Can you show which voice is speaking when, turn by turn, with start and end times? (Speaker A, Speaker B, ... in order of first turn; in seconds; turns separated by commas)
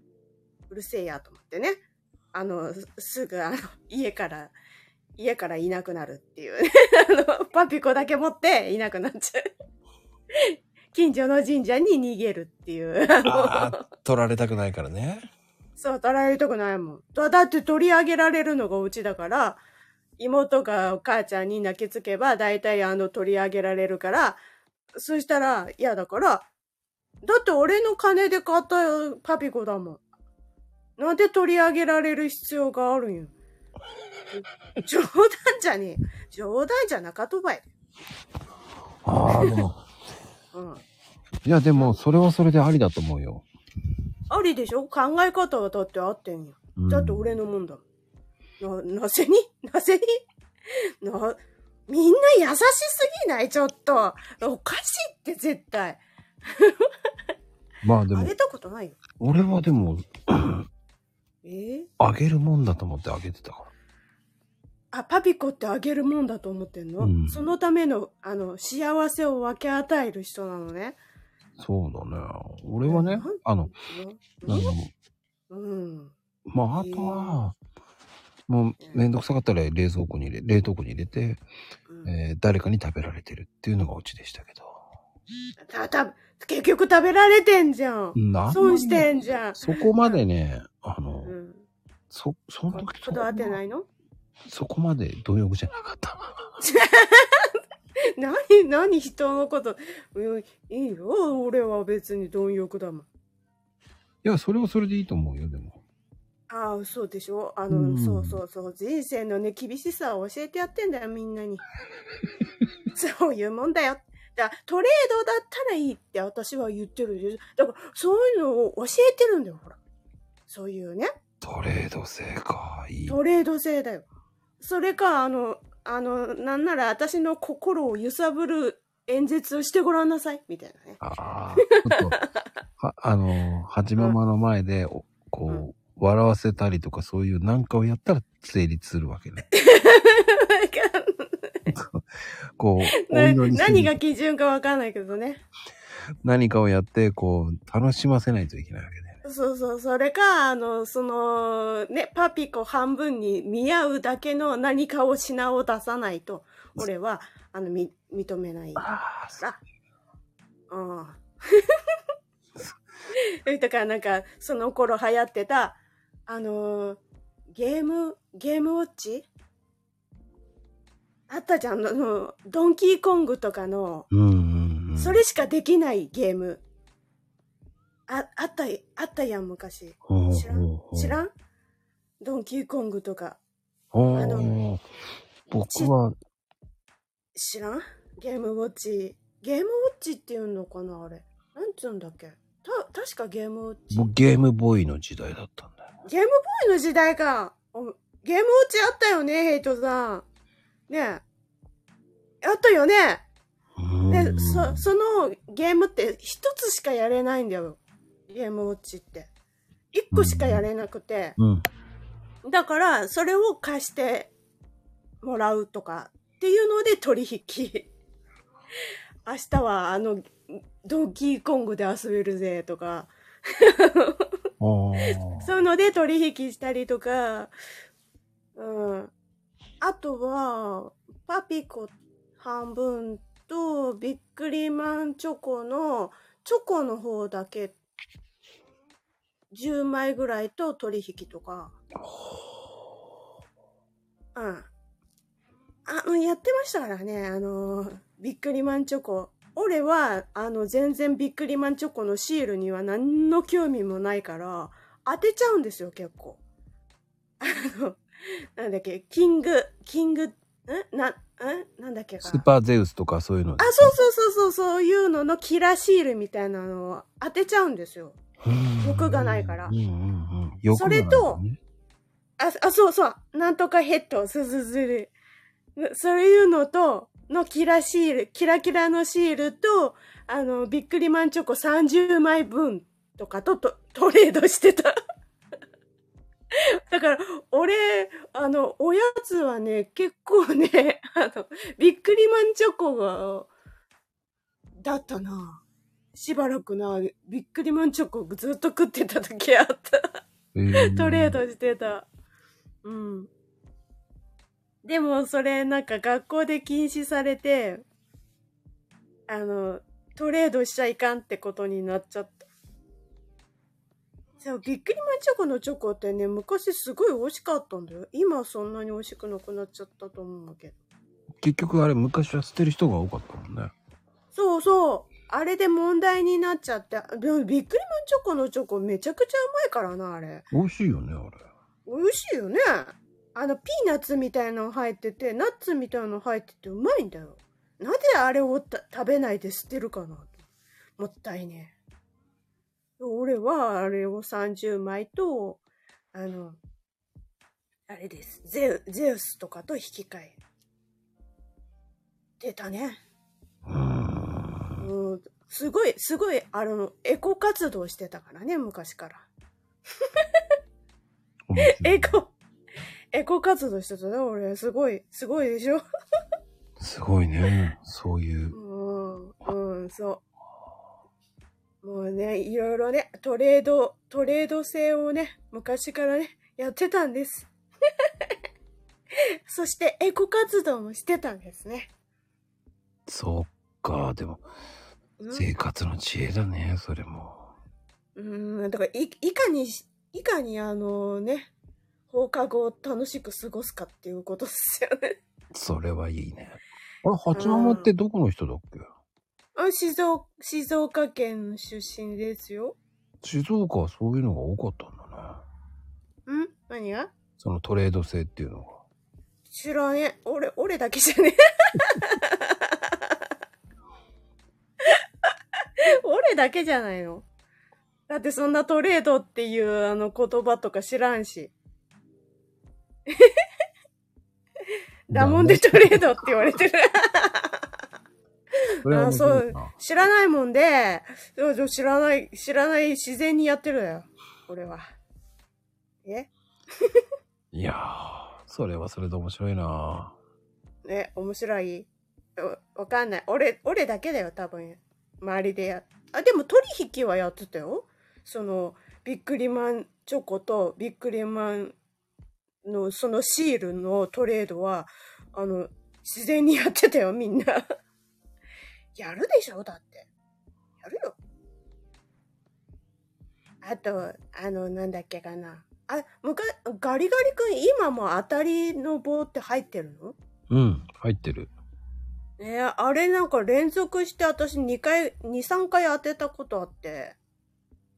Speaker A: 0.7-1.8, Speaker A: 2.3-4.5, Speaker A: 5.2-9.4, Speaker A: 10.3-13.8, Speaker B: 13.2-15.3, Speaker A: 15.8-19.6, Speaker A: 20.2-24.4, Speaker A: 24.9-26.4, Speaker A: 27.2-30.0, Speaker A: 31.0-33.3, Speaker A: 34.8-37.6, Speaker B: 39.0-39.8, Speaker A: 39.2-39.6, Speaker A: 40.5-40.8, Speaker B: 41.4-43.5, Speaker A: 44.3-47.8, Speaker B: 46.8-47.4, Speaker A: 48.6-56.9, Speaker B: 57.8-58.3, Speaker A: 58.1-59.0, Speaker B: 59.2-60.7, Speaker A: 61.4-61.9, Speaker B: 62.0-63.7, Speaker A: 64.9-71.0, Speaker B: 67.0-67.4, Speaker B: 71.6-73.7, Speaker A: 72.8-74.7, Speaker B: 74.4-74.9, Speaker A: 75.5-76.1, Speaker B: 76.5-77.5, Speaker A: 76.8-77.4, Speaker B: 78.5-81.4, Speaker B: 82.0-84.8, Speaker A: 85.6-90.2, Speaker B: 88.1-91.3, Speaker A: 91.2-91.7, Speaker B: 92.1-93.6, Speaker A: 92.7-93.9, Speaker B: 94.5-96.5, Speaker A: 96.6-97.6, Speaker A: 98.2-103.1, Speaker B: 104.2-105.8, Speaker A: 106.5-111.6, Speaker B: 107.7-108.4, Speaker A: 112.9-119.8, Speaker A: 120.5-121.1, Speaker B: 121.4-123.2, Speaker A: 123.1-124.0, Speaker A: 124.6-131.0, Speaker B: 131.0-132.2, Speaker A: 131.6-132.4, Speaker B: 132.8-139.4, Speaker A: 139.5-141.7, Speaker B: 141.7-142.0, Speaker B: 142.6-143.9, Speaker A: 143.0-145.4, Speaker B: 146.2-149.2, Speaker A: 149.2-159.6, Speaker B: 158.8-159.4, Speaker A: 160.7-161.8, Speaker A: 163.4-167.0, Speaker A: 167.5-169.3, Speaker A: 171.3-174.1, Speaker B: 174.1-175.2, Speaker A: 175.0-176.6, Speaker A: 178.1-181.3, Speaker B: 180.1-181.2, Speaker A: 182.2-183.4, Speaker B: 183.9-184.8, Speaker A: 184.1-184.6, Speaker B: 185.5-186.1, Speaker A: 187.3-194.1, Speaker B: 193.9-195.9, Speaker A: 196.1-200.2, Speaker A: 200.9-201.2, Speaker A: 202.4-203.2, Speaker B: 203.8-204.9, Speaker A: 204.1-209.3, Speaker A: 209.9-211.4, Speaker B: 210.1-210.6, Speaker B: 211.4-211.6, Speaker A: 212.4-214.3, Speaker A: 215.2-217.9, Speaker A: 219.2-224.3, Speaker B: 224.6-225.5, Speaker A: 225.4-227.5, Speaker A: 228.6-229.1, Speaker A: 229.8-237.7, Speaker A: 239.5-241.8, Speaker B: 242.0-242.4, Speaker A: 244.3-244.7, Speaker A: 245.8-256.4, Speaker A: 257.4-258.0, Speaker A: 258.6-262.4, Speaker B: 262.2-263.9, Speaker A: 263.6-268.2, Speaker B: 268.4-271.6, Speaker A: 268.8-269.7, Speaker A: 270.7-271.4, Speaker A: 272.4-275.1, Speaker A: 275.8-284.9, Speaker A: 286.5-293.5, Speaker A: 294.8-295.6, Speaker A: 296.1-300.2, Speaker B: 300.5-301.4, Speaker A: 300.8-302.1, Speaker A: 302.8-303.3, Speaker A: 304.8-307.8, Speaker A: 309.3-312.5, Speaker A: 314.4-320.8, Speaker B: 321.4-323.7, Speaker A: 324.3-330.5, Speaker B: 330.5-331.4, Speaker A: 331.9-340.3, Speaker A: 341.0-341.7, Speaker A: 343.0-345.6, Speaker A: 346.1-346.6, Speaker A: 347.9-350.4, Speaker A: 352.4-353.0, Speaker B: 353.6-354.9, Speaker A: 354.8-359.2, Speaker A: 360.0-360.4, Speaker B: 361.5-362.2, Speaker A: 361.6-362.3, Speaker A: 363.1-365.8, Speaker B: 366.8-368.6, Speaker A: 368.5-370.2, Speaker A: 371.8-377.5, Speaker A: 378.0-378.3, Speaker A: 379.5-381.9, Speaker B: 383.1-384.4, Speaker A: 385.2-385.5, Speaker B: 385.3-387.5, Speaker A: 388.1-391.5, Speaker A: 392.1-395.1, Speaker B: 395.5-398.9, Speaker A: 397.3-397.9, Speaker A: 399.6-402.8, Speaker B: 403.2-405.4, Speaker A: 406.2-407.1, Speaker B: 407.4-408.8, Speaker A: 409.5-413.2, Speaker A: 415.8-417.2, Speaker A: 418.1-421.5, Speaker A: 423.1-423.4, Speaker A: 425.1-427.6, Speaker B: 425.1-426.6, Speaker B: 428.8-429.7, Speaker A: 428.8-434.9, Speaker A: 436.0-437.0, Speaker B: 437.5-440.1, Speaker A: 440.8-451.7, Speaker A: 452.6-457.6, Speaker A: 458.9-460.1, Speaker A: 460.8-461.1, Speaker A: 463.6-470.1, Speaker B: 470.5-471.5, Speaker A: 472.4-477.1